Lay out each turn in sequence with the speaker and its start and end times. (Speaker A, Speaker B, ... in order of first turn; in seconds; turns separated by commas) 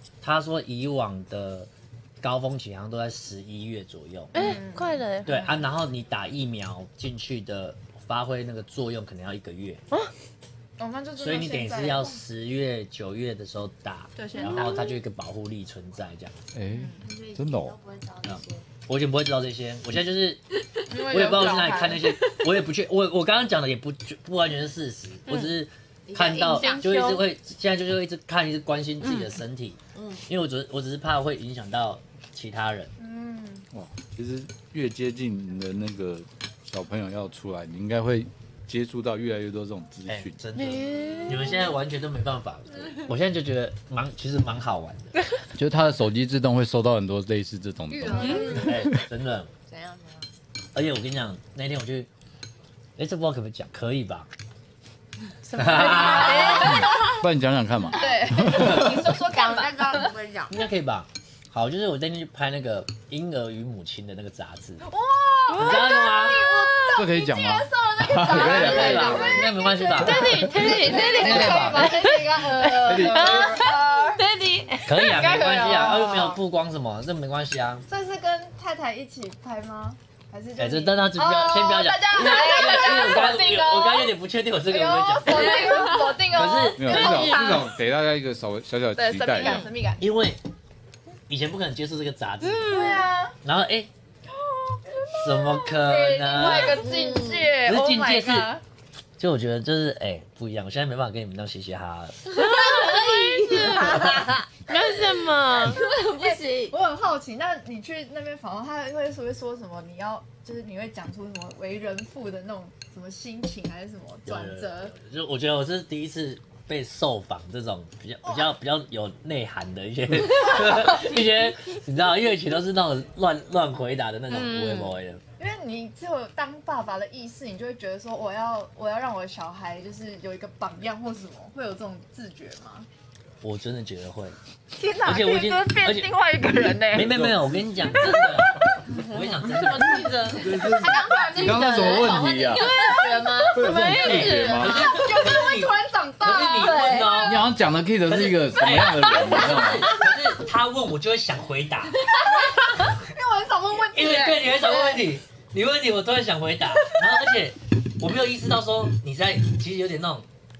Speaker A: 0.2-1.7, Speaker A: 2.2-4.3, Speaker B: 4.3-5.3, Speaker C: 4.3-5.5, Speaker A: 5.2-9.8, Speaker C: 10.8-12.2, Speaker A: 11.2-16.3, Speaker C: 14.2-14.9, Speaker D: 14.3-14.8, Speaker E: 16.5-17.8, Speaker C: 16.7-17.0, Speaker D: 16.9-18.6, Speaker A: 18.2-20.4, Speaker C: 20.9-22.1, Speaker A: 20.9-32.9, Speaker D: 26.1-27.2, Speaker B: 26.3-27.2, Speaker B: 29.0-29.3, Speaker D: 29.9-30.2, Speaker C: 33.0-33.7, Speaker E: 33.7-40.4, Speaker A: 40.1-45.1, Speaker B: 40.5-41.7, Speaker E: 45.5-49.0, Speaker D: 47.9-48.9, Speaker C: 48.3-48.6, Speaker A: 48.4-49.5, Speaker D: 49.7-50.3, Speaker A: 50.7-52.1, Speaker A: 53.0-54.3, Speaker B: 55.5-56.6, Speaker A: 55.5-56.8, Speaker C: 55.7-57.1, Speaker D: 55.8-57.2, Speaker E: 57.0-59.1, Speaker C: 58.0-60.1, Speaker D: 58.5-60.6, Speaker A: 60.5-64.8, Speaker C: 64.8-74.2, Speaker B: 65.5-65.9, Speaker A: 65.5-66.4, Speaker D: 66.5-71.8, Speaker E: 66.9-69.4, Speaker A: 68.2-72.0, Speaker B: 69.9-75.0, Speaker E: 72.8-73.6, Speaker A: 74.8-77.8, Speaker C: 75.0-76.4, Speaker C: 77.9-84.1, Speaker A: 80.6-87.1, Speaker C: 84.6-87.7, Speaker D: 85.4-86.2, Speaker E: 86.8-89.6, Speaker D: 86.9-87.6, Speaker B: 86.9-87.6, Speaker C: 89.0-90.1, Speaker A: 90.0-90.4, Speaker A: 91.3-92.9, Speaker B: 92.4-93.1, Speaker C: 92.7-93.3, Speaker A: 93.4-93.9, Speaker C: 94.3-98.6, Speaker A: 95.2-96.9, Speaker D: 96.4-97.5, Speaker A: 97.6-98.5, Speaker A: 99.2-102.2, Speaker D: 102.2-104.6, Speaker B: 102.3-105.8, Speaker C: 102.7-104.0, Speaker A: 103.9-104.2, Speaker D: 105.5-106.8, Speaker C: 105.8-114.9, Speaker A: 114.2-125.2, Speaker C: 118.2-118.5, Speaker B: 124.3-124.9, Speaker C: 125.4-132.9, Speaker A: 133.4-134.3, Speaker C: 134.7-137.2, Speaker A: 135.0-136.1, Speaker A: 136.9-140.1, Speaker E: 136.9-137.6, Speaker B: 139.2-140.6, Speaker D: 139.8-144.9, Speaker E: 140.3-142.7, Speaker C: 141.4-143.5, Speaker E: 143.5-144.9, Speaker B: 143.6-144.8, Speaker A: 144.0-147.4, Speaker C: 144.6-147.2, Speaker D: 146.6-147.4, Speaker E: 147.2-149.9, Speaker A: 148.1-152.1, Speaker D: 149.1-150.1, Speaker D: 152.0-152.7, Speaker C: 152.2-155.0, Speaker A: 153.9-160.2